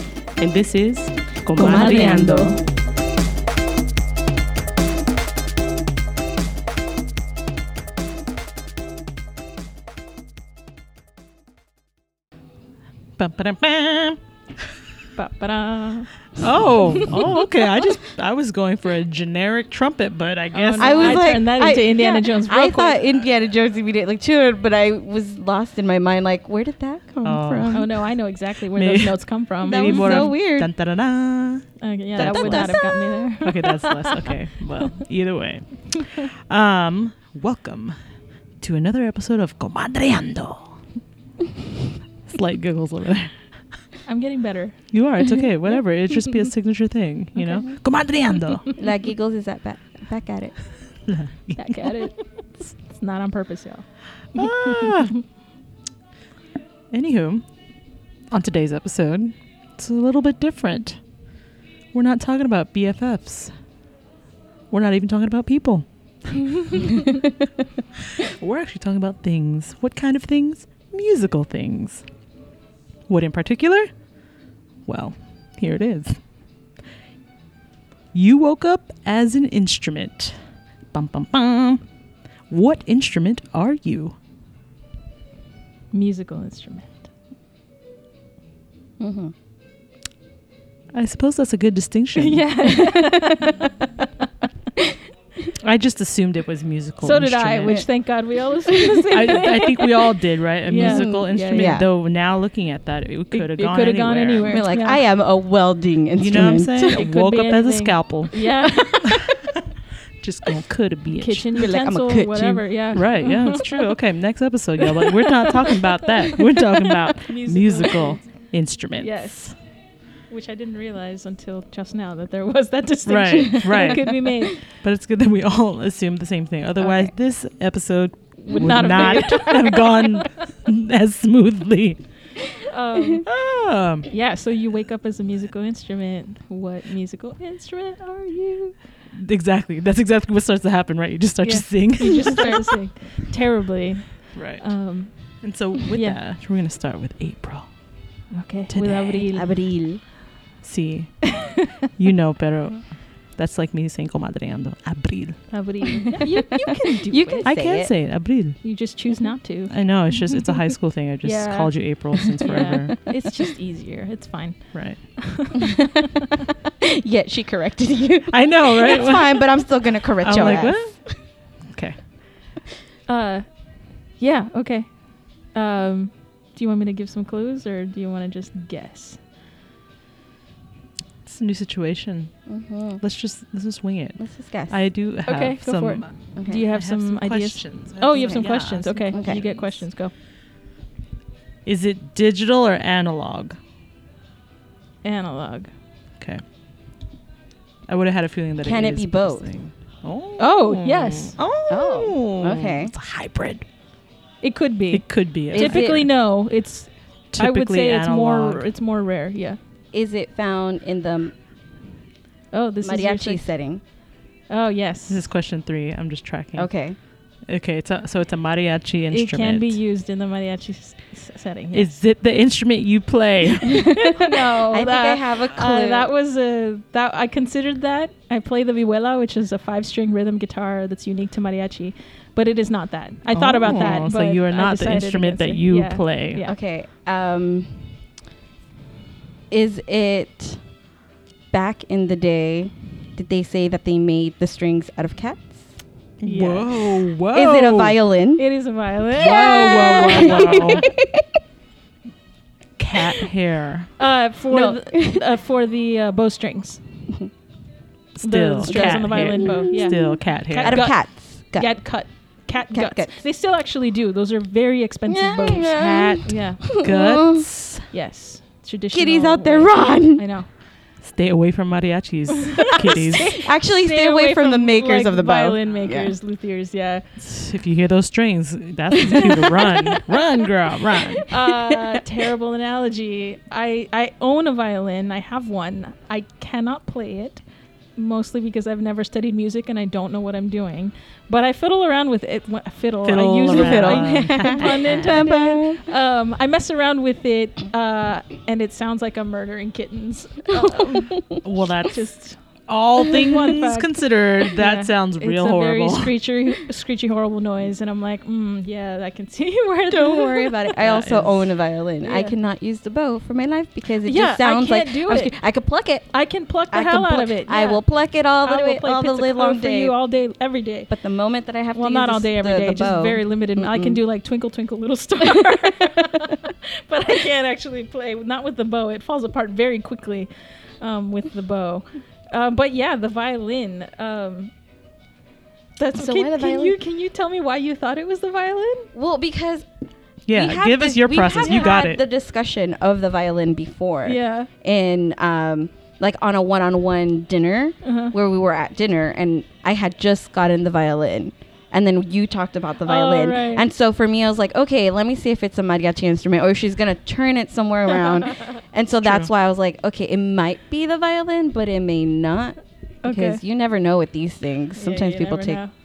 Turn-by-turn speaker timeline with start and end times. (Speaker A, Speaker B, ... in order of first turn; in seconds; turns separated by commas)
Speaker A: 0.4-2.5, Speaker B: 1.5-2.5, Speaker C: 1.6-2.6, Speaker A: 13.2-14.2, Speaker C: 15.1-16.2, Speaker A: 16.4-21.4, Speaker C: 16.8-17.2, Speaker C: 20.5-23.0, Speaker B: 20.8-27.9, Speaker A: 27.2-28.1, Speaker C: 27.7-30.3, Speaker A: 28.7-32.8, Speaker B: 29.6-30.7, Speaker C: 31.8-34.2, Speaker B: 32.2-33.3, Speaker A: 33.4-37.9, Speaker A: 38.6-40.8, Speaker A: 42.3-43.3, Speaker C: 44.0-44.8, Speaker A: 44.9-48.7, Speaker B: 47.4-47.7, Speaker B: 48.8-50.5, Speaker A: 51.1-51.9, Speaker C: 51.6-53.8, Speaker A: 54.3-55.1, Speaker C: 54.4-55.2, Speaker A: 56.9-57.4, Speaker A: 58.3-61.0, Speaker A: 61.9-63.5, Speaker A: 64.7-66.6, Speaker B: 66.9-67.2, Speaker A: 68.1-72.0, Speaker A: 73.1-73.9, Speaker A: 74.8-76.2, Speaker A: 78.1-80.4, Speaker A: 80.9-81.8, Speaker A: 82.5-84.2, Speaker C: 85.9-87.0, Speaker B: 89.0-89.3, Speaker A: 90.9-92.8, Speaker C: 92.2-94.3, Speaker B: 93.0-93.5, Speaker A: 95.6-97.8, Speaker C: 97.0-101.8, Speaker B: 98.7-99.0, Speaker A: 99.1-104.6, Speaker B: 100.7-101.8, Speaker C: 103.3-105.0, Speaker B: 104.5-107.0, Speaker A: 106.2-109.5, Speaker C: 106.9-109.2, Speaker A: 110.2-111.7, Speaker C: 111.2-113.8, Speaker B: 111.5-112.7, Speaker A: 112.9-119.5, Speaker C: 115.3-115.8, Speaker C: 116.3-118.3, Speaker C: 119.0-119.6, Speaker C: 120.3-124.6, Speaker A: 123.1-132.0, Speaker B: 126.8-127.1, Speaker C: 128.5-130.3, Speaker B: 128.5-129.4, Speaker C: 132.6-133.3, Speaker A: 133.2-134.1, Speaker C: 134.1-138.8, Speaker A: 139.1-142.7, Speaker C: 141.4-145.3, Speaker A: 144.3-147.7, Speaker C: 145.9-146.2, Speaker C: 148.3-149.5, Speaker A: 148.7-149.2, Speaker B: 149.3-150.0, Speaker A: 150.6-155.6, Speaker C: 151.3-151.7, Speaker C: 155.5-157.5, Speaker B: 156.1-157.9, Speaker A: 157.4-158.6, Speaker C: 158.6-159.7, Speaker A: 159.7-163.2, Speaker C: 161.2-165.9, Speaker A: 164.7-165.2, Speaker B: 165.6-166.0, Speaker B: 166.8-171.2, Speaker A: 168.3-169.6, Speaker A: 170.2-172.0, Speaker C: 173.1-179.2, Speaker A: 181.2-182.3, Speaker B: 182.5-183.0, Speaker A: 183.0-189.7, Speaker B: 184.2-184.8, Speaker C: 185.2-190.1, Speaker B: 186.3-186.6, Speaker B: 188.1-189.5, Speaker A: 191.7-193.6, Speaker C: 195.0-195.7, Speaker A: 197.9-203.6, Speaker B: 198.6-199.5, Speaker C: 200.4-201.3, Speaker B: 201.7-202.9, Speaker C: 204.4-209.6, Speaker A: 204.9-206.0, Speaker B: 205.5-206.0, Speaker A: 207.3-208.6, Speaker B: 209.9-211.3, Speaker C: 212.5-213.4, Speaker B: 212.8-213.8, Speaker C: 214.5-215.2, Speaker A: 215.1-216.7, Speaker B: 216.6-217.0, Speaker A: 217.5-219.8, Speaker C: 219.1-221.9, Speaker A: 221.7-223.9, Speaker B: 223.7-226.1, Speaker C: 223.8-236.6, Speaker A: 233.3-236.4, Speaker B: 233.7-234.1, Speaker B: 236.4-238.0, Speaker B: 239.5-240.6, Speaker B: 241.5-245.7, Speaker A: 246.2-248.0, Speaker C: 246.2-247.0, Speaker B: 247.3-248.4, Speaker C: 248.4-250.9, Speaker A: 249.1-250.9, Speaker B: 249.2-251.4, Speaker A: 252.8-253.9, Speaker C: 254.0-256.8, Speaker B: 254.5-255.3, Speaker A: 258.2-260.9, Speaker C: 258.2-261.0, Speaker B: 258.6-261.8, Speaker C: 261.6-266.6, Speaker B: 262.7-263.1, Speaker B: 265.1-267.5, Speaker A: 266.8-267.9, Speaker C: 267.9-270.5, Speaker B: 268.9-270.2, Speaker A: 271.0-273.4, Speaker C: 272.5-277.0, Speaker B: 272.9-276.1, Speaker A: 277.2-281.3, Speaker C: 279.2-280.0, Speaker C: 281.2-287.4, Speaker C: 287.9-301.2, Speaker A: 293.0-295.2, Speaker B: 293.5-295.8, Speaker B: 300.5-301.4, Speaker A: 301.4-302.1, Speaker C: 301.8-302.4, Speaker A: 302.7-306.1, Speaker C: 303.0-310.7, Speaker B: 309.9-316.1, Speaker A: 310.8-311.5, Speaker C: 312.0-312.3, Speaker C: 314.0-315.4, Speaker C: 316.1-317.8, Speaker B: 316.7-319.9, Speaker C: 318.4-320.9, Speaker B: 320.9-324.0, Speaker C: 321.7-330.3, Speaker B: 325.8-326.3, Speaker C: 330.8-334.5, Speaker C: 335.8-338.9, Speaker B: 335.9-336.8, Speaker B: 338.9-339.6, Speaker A: 340.3-342.0, Speaker B: 340.3-365.6, Speaker C: 341.4-341.6, Speaker C: 344.0-344.5, Speaker C: 347.8-348.1, Speaker C: 352.8-353.6, Speaker A: 359.0-359.3, Speaker C: 363.0-363.4, Speaker C: 364.8-365.7